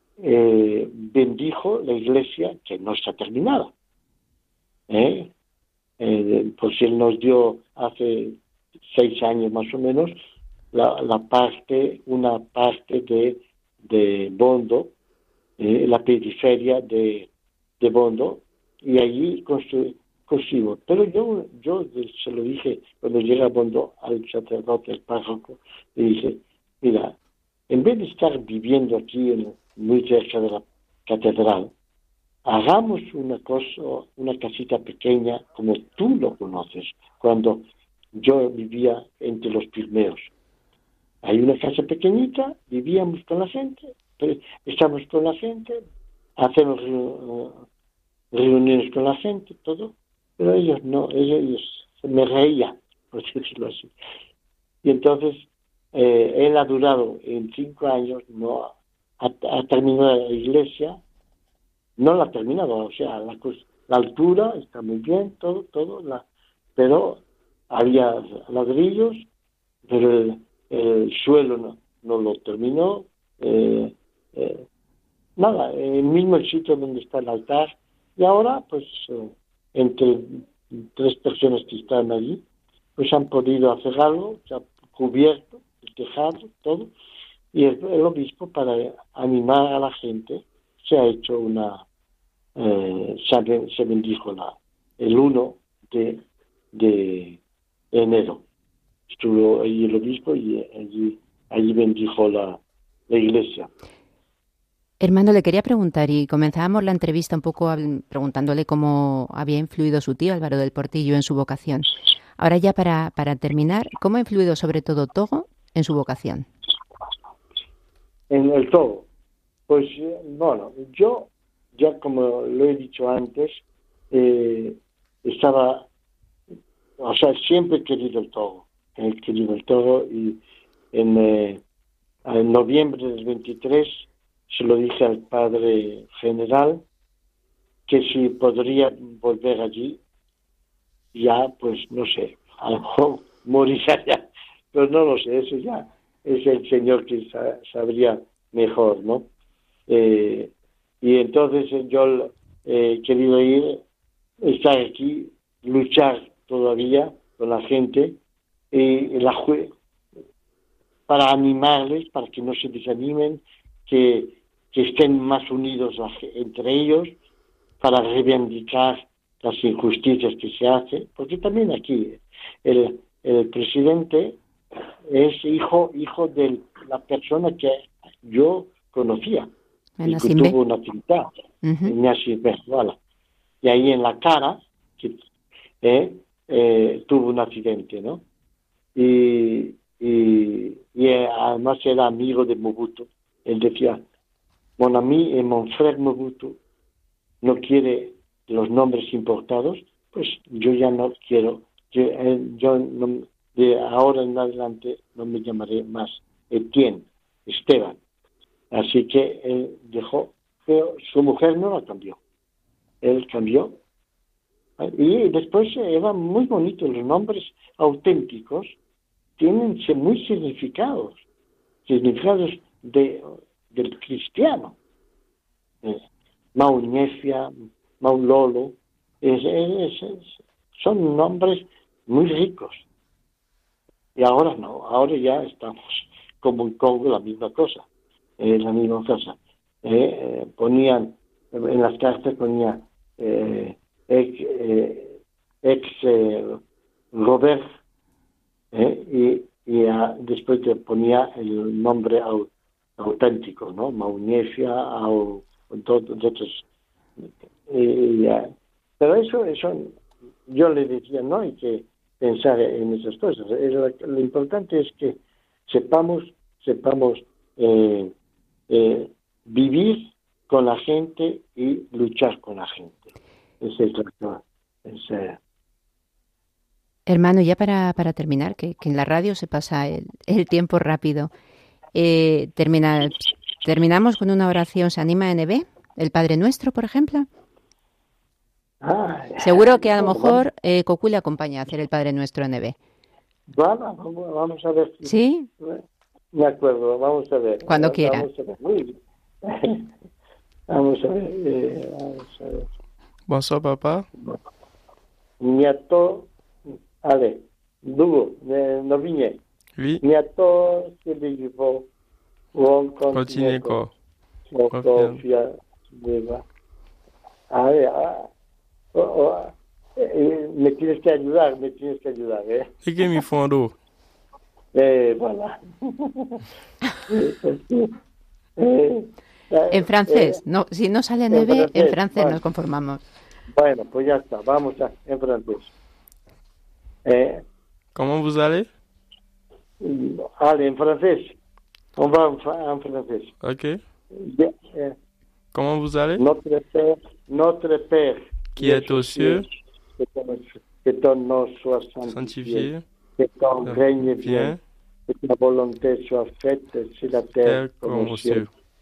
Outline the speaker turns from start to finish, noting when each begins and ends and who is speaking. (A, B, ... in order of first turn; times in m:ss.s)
0:00.2-0:03.7 A
0:04.9-0:05.3 A
0:06.0-0:08.4 A
0:08.9-0:10.1 A
0:10.7-0:14.9 A
0:15.6-0:17.3 A
0:17.8-0:27.1 A
0:27.7-0:31.7 A
0:32.4-0:40.3 A
0:41.2-0:45.8 A
0:46.4-0:47.6 A
0:48.3-0:53.9 A
0:54.8-1:01.0 A
1:02.0-1:06.2 A
1:06.8-1:09.2 A
1:09.9-1:14.6 A
1:15.4-1:22.4 A
1:23.0-1:26.9 A
1:27.5-1:31.8 A
1:32.6-1:36.2 A
1:36.7-1:37.4 A
1:37.9-1:38.4 A
1:39.2-1:43.7 A
1:45.0-1:56.5 B
1:58.3-1:59.1 A
1:59.7-2:05.9 A
2:07.0-2:10.4 A
2:10.9-2:11.6 A
2:12.2-2:16.8 A
2:17.9-2:20.0 A
2:21.1-2:29.3 A
2:29.9-2:30.5 A
2:31.0-2:33.8 A
2:34.4-2:38.2 A
2:38.7-2:39.7 A
2:41.1-2:47.1 A
2:47.8-2:54.4 A
2:55.1-2:59.5 A
3:00.0-3:00.6 B
3:00.0-3:01.3 A
3:01.6-3:01.9 B
3:01.8-3:03.0 A
3:03.6-3:05.2 A
3:05.8-3:08.2 A
3:08.9-3:14.0 A
3:14.8-3:16.6 A
3:17.4-3:28.0 A
3:28.7-3:32.2 A
3:33.0-3:33.8 A
3:34.8-3:38.7 A
3:39.4-3:41.2 A
3:41.8-3:44.8 A
3:46.5-3:52.8 A
3:54.2-3:57.8 A
3:58.4-4:06.6 A
4:07.1-4:07.7 A
4:08.7-4:16.6 A
4:17.7-4:19.9 A
4:20.5-4:28.1 A
4:28.7-4:33.0 A
4:33.6-4:35.4 A
4:37.1-4:41.3 B
4:41.9-4:47.3 B
4:48.8-4:50.4 A
4:49.4-4:52.8 B
4:53.5-4:55.8 A
4:55.0-4:55.5 B
4:56.3-4:59.9 A
4:57.7-4:58.3 B
5:00.7-5:02.7 A
5:03.3-5:04.1 C
5:05.4-5:06.3 A
5:07.0-5:09.4 A
5:09.8-5:10.0 C
5:10.0-5:11.9 A
5:12.5-5:13.8 A
5:13.1-5:13.9 C
5:14.5-5:16.4 A
5:14.7-5:15.2 C
5:17.5-5:18.3 A
5:18.9-5:22.7 A
5:22.8-5:23.8 C
5:24.7-5:26.4 A
5:27.1-5:27.9 A
5:28.6-5:30.4 A
5:29.7-5:33.0 B
5:31.3-5:32.4 A
5:33.5-5:35.7 A
5:37.0-5:37.4 A
5:37.9-5:38.7 C
5:39.8-5:41.4 A
5:42.0-5:43.3 A
5:43.4-5:43.8 C
5:44.1-5:45.0 A
5:45.5-5:46.2 C
5:46.2-5:49.4 A
5:48.5-5:49.5 C
5:50.0-5:58.5 A
5:52.1-5:52.8 C
5:53.6-5:54.6 C
5:57.4-5:58.5 C